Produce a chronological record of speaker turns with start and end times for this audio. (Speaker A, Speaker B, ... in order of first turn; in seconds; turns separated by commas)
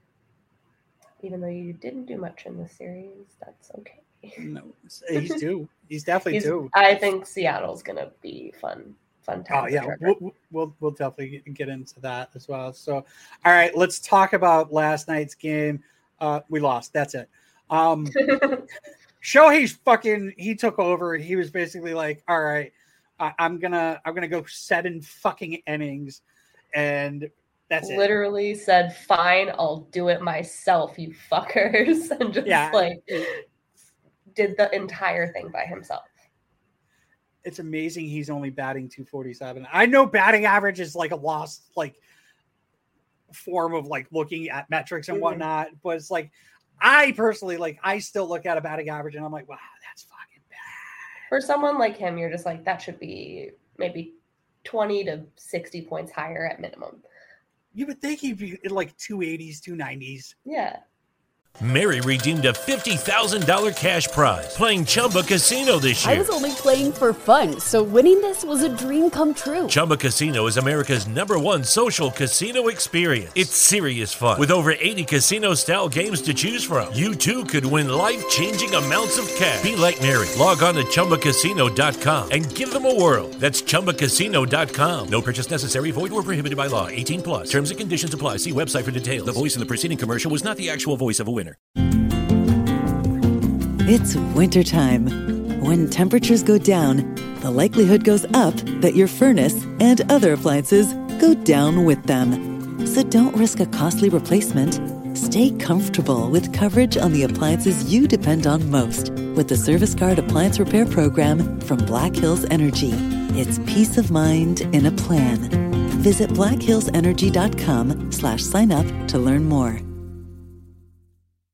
Speaker A: 1.2-4.5, Speaker B: 4.4-7.1, Speaker A: 5.1-5.4, Speaker A: 6.3-10.2, Speaker B: 9.5-18.2, Speaker A: 18.1-18.6, Speaker B: 19.2-26.2, Speaker B: 26.7-28.1, Speaker A: 27.8-33.4, Speaker B: 32.4-33.3, Speaker A: 34.3-36.1, Speaker B: 37.4-42.0, Speaker B: 43.3-51.0, Speaker A: 45.1-45.5, Speaker A: 51.3-57.0, Speaker B: 57.7-60.4, Speaker A: 60.4-60.8, Speaker C: 61.6-66.3, Speaker D: 66.0-69.8, Speaker C: 69.7-91.6, Speaker E: 93.8-119.8